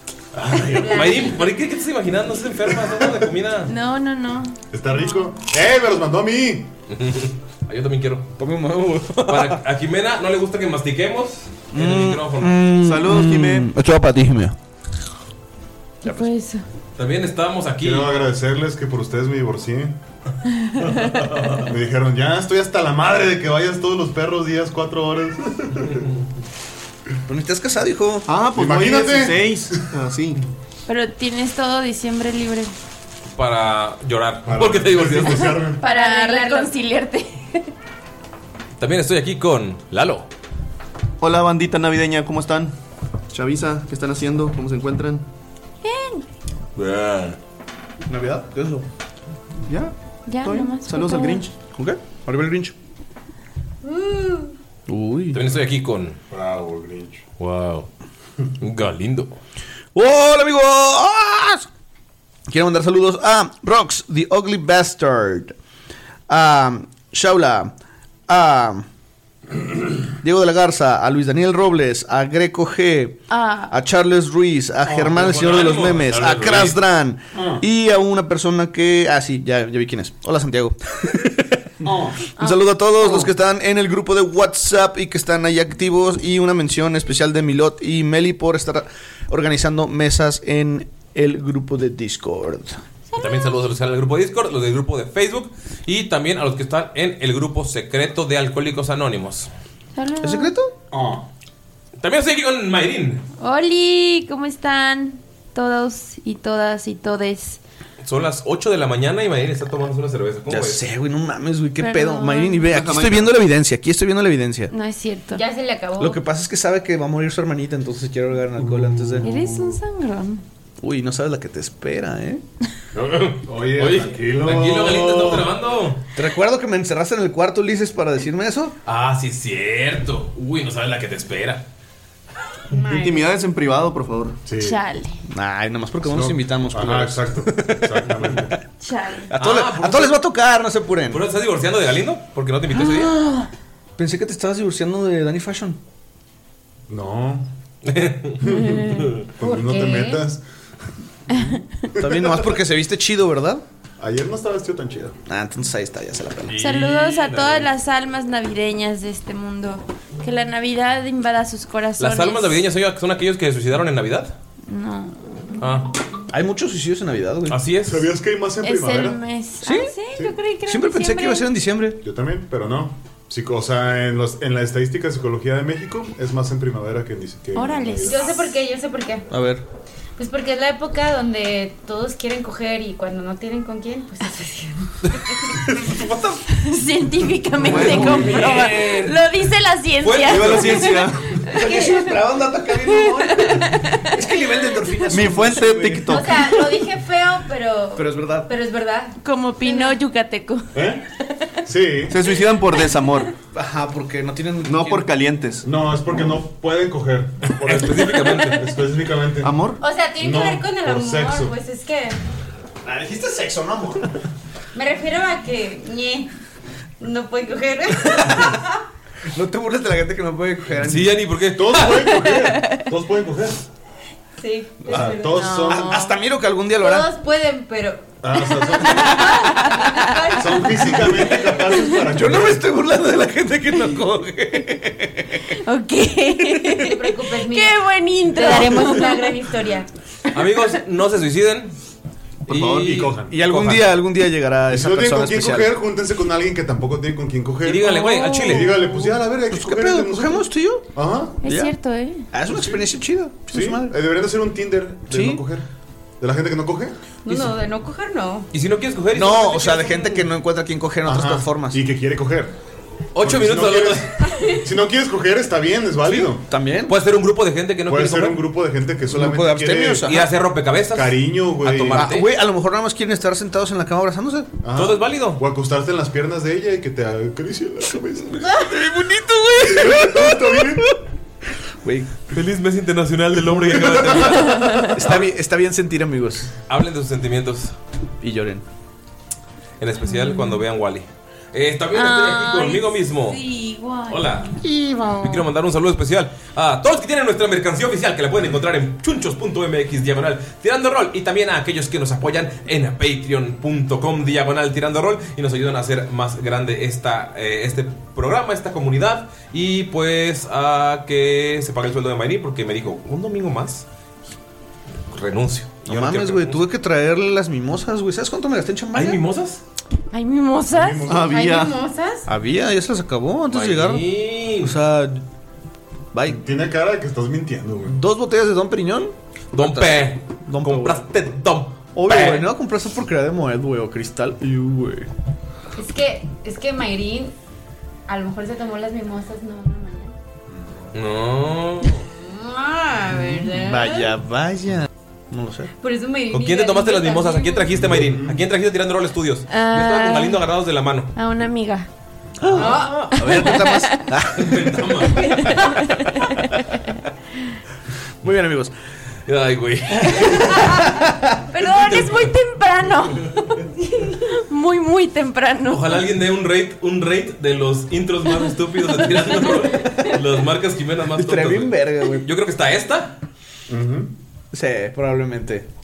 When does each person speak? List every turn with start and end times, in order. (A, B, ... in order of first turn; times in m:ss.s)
0:00.3-0:01.3 A
0:00.7-0:01.4 B
0:00.8-0:03.7 C
0:03.7-0:04.6 D
0:04.7-0:06.7 A
0:06.9-0:08.3 C
0:08.4-0:09.6 E
0:09.3-0:12.6 C
0:11.7-0:14.6 E
0:12.8-0:13.7 F
0:16.0-0:16.6 D
0:17.0-0:18.1 C
0:17.8-0:20.0 A
0:21.1-0:21.7 C
0:21.6-0:26.1 A
0:27.3-0:28.3 E
0:28.3-0:30.4 F
0:28.4-0:29.6 A
0:30.9-0:32.7 D
0:33.4-0:35.6 C
0:34.4-0:35.8 A
0:35.3-0:37.7 D
0:35.8-0:36.7 B
0:38.8-0:40.3 C
0:41.2-0:42.8 F
0:43.3-0:45.2 F
0:45.8-0:46.2 D
0:46.8-0:47.3 C
0:48.1-0:48.8 E
0:49.7-0:51.5 F
0:50.3-0:51.4 D
0:51.5-0:52.8 E
0:53.8-0:54.5 B
0:54.9-0:55.4 E
0:55.3-0:56.2 C
0:56.3-0:57.2 A
0:57.4-0:57.9 C
0:58.6-0:59.3 C
0:59.9-1:01.6 E
1:02.5-1:05.5 E
1:06.3-1:07.7 E
1:08.3-1:08.8 E
1:10.2-1:32.8 E
1:13.3-1:13.8 D
1:14.8-1:15.3 A
1:15.1-1:16.8 C
1:17.3-1:17.6 A
1:21.8-1:22.3 A
1:22.4-1:23.3 D
1:33.2-1:39.5 C
1:33.2-1:33.5 D
1:39.9-1:40.5 D
1:40.2-1:40.7 E
1:40.9-1:41.2 A
1:42.0-1:43.2 C
1:43.4-1:47.6 D
1:48.0-1:50.8 C
1:50.5-1:54.7 E
1:51.8-1:52.8 D
1:52.7-1:53.3 F
1:54.7-1:55.4 D
1:55.3-1:56.2 B
1:56.0-1:59.2 E
1:58.8-1:59.3 A
1:59.2-2:00.4 D
2:00.8-2:02.4 E
2:02.9-2:06.0 C
2:03.4-2:05.5 A
2:06.2-2:08.8 E
2:08.8-2:11.6 C
2:12.7-2:13.2 B
2:12.8-2:14.4 F
2:14.4-2:14.8 A
2:14.6-2:15.2 D
2:15.3-2:18.5 E
2:16.0-2:18.5 A
2:18.8-2:19.3 D
2:19.3-2:21.2 E
2:19.4-2:20.2 C
2:21.1-2:23.1 C
2:22.8-2:23.5 D
2:24.0-2:25.8 E
2:26.9-2:27.5 A
2:27.8-2:29.2 C
2:28.4-2:30.4 A
2:29.4-2:30.2 B
2:32.0-2:33.6 E
2:32.0-2:32.6 A
2:34.0-2:35.2 A
2:35.3-2:36.6 E
2:36.5-2:37.7 A
2:36.6-2:37.5 C
2:36.6-2:42.6 D
2:42.0-2:44.4 C
2:44.7-2:45.2 D
2:45.6-2:45.9 C
2:46.3-2:47.6 E
2:47.5-2:48.1 C
2:47.8-2:49.2 A
2:48.6-2:51.5 D
2:49.6-2:49.9 E
2:50.6-2:52.0 E
2:52.0-2:58.2 A
2:57.5-2:58.4 D
2:58.1-2:59.3 B
2:59.3-2:59.6 E
3:00.2-3:04.8 B
3:06.5-3:11.7 D
3:07.6-3:09.2 E
3:07.6-3:08.5 F
3:10.0-3:11.0 C
3:10.2-3:11.4 F
3:11.5-3:16.2 E
3:11.6-3:12.0 B
3:12.8-3:14.2 D
3:15.1-3:16.5 F
3:16.1-3:20.0 B
3:18.0-3:18.5 E
3:19.2-3:20.8 D
3:20.8-3:21.0 A
3:21.6-3:22.2 A
3:22.1-3:23.3 F
3:23.5-3:25.1 E
3:24.6-3:25.7 F
3:25.6-3:29.6 A
3:27.5-3:28.7 C
3:29.4-3:29.8 F
3:29.8-3:32.2 B
3:30.2-3:31.5 A
3:32.8-3:34.1 E
3:34.7-3:36.3 B
3:37.0-3:38.8 B
3:39.3-3:41.2 E
3:40.8-3:42.3 C
3:41.5-3:43.6 A
3:41.9-3:42.8 D
3:44.4-3:45.4 B
3:44.9-3:46.0 A
3:45.3-3:46.2 D
3:45.7-3:47.1 E
3:46.8-3:51.1 B
3:48.2-3:49.4 A
3:50.4-3:52.7 A
3:52.1-3:55.4 E
3:55.6-3:59.4 D
3:56.7-3:59.9 B
4:00.3-4:01.7 C
4:02.5-4:03.2 F
4:02.5-4:03.9 C
4:02.7-4:03.4 A
4:03.3-4:05.7 E
4:04.7-4:07.9 A
4:07.6-4:08.8 C
4:07.9-4:08.6 D
4:08.5-4:11.4 A
4:09.5-4:10.9 E
4:11.4-4:12.3 D
4:11.5-4:11.7 E
4:12.3-4:13.9 E
4:13.5-4:15.6 A
4:15.1-4:15.4 E
4:16.2-4:16.9 A
4:17.2-4:18.5 B
4:18.5-4:20.3 C
4:19.1-4:21.8 E
4:21.0-4:22.5 A
4:23.1-4:24.2 C
4:23.2-4:26.4 A
4:26.0-4:26.9 E
4:26.9-4:28.4 C
4:27.9-4:30.2 A
4:29.1-4:30.3 E
4:30.0-4:32.3 C
4:30.9-4:32.1 A
4:31.9-4:34.5 E
4:34.6-4:38.6 A
4:34.7-4:35.4 C
4:38.4-4:40.9 E
4:39.6-4:40.9 A
4:41.8-4:42.2 E
4:42.3-4:45.2 C
4:44.4-4:46.5 E
4:44.5-4:44.9 D
4:46.7-4:47.8 C
4:48.2-4:48.6 E
4:49.8-4:53.4 C
4:50.0-4:50.6 D
4:51.9-4:55.4 D
4:54.1-4:54.6 C
4:55.2-5:13.9 C
5:15.1-5:16.6 C
5:15.9-5:19.2 E
5:18.9-5:19.6 C
5:20.1-5:21.1 D
5:20.7-5:21.3 A
5:21.1-5:21.8 F
5:21.1-5:22.3 B
5:22.3-5:24.1 E
5:23.5-5:24.7 C
5:24.6-5:25.2 E
5:26.1-5:26.4 E
5:26.2-5:28.0 A
5:27.9-5:31.0 E
5:29.5-5:32.5 C
5:31.9-5:35.1 E
5:35.8-5:37.3 B
5:38.1-5:40.1 B
5:40.5-5:40.9 A
5:40.9-5:42.0 C
5:42.0-5:44.1 B
5:43.5-5:45.7 E
5:45.8-5:47.7 B
5:46.3-5:51.1 C
5:47.8-5:48.4 A
5:49.5-5:50.4 D
5:51.1-5:51.9 D
5:52.4-5:55.0 E
5:52.5-5:53.3 B
5:53.2-5:54.1 D
5:54.4-5:55.5 C
5:55.2-5:56.5 D
5:58.2-5:58.7 E
5:59.3-6:00.9 C
6:00.8-6:01.4 E
6:01.5-6:06.0 D
6:01.6-6:02.4 C
6:03.2-6:03.6 C
6:05.7-6:13.2 C
6:11.1-6:12.3 E
6:13.7-6:14.1 A
6:14.5-6:15.7 E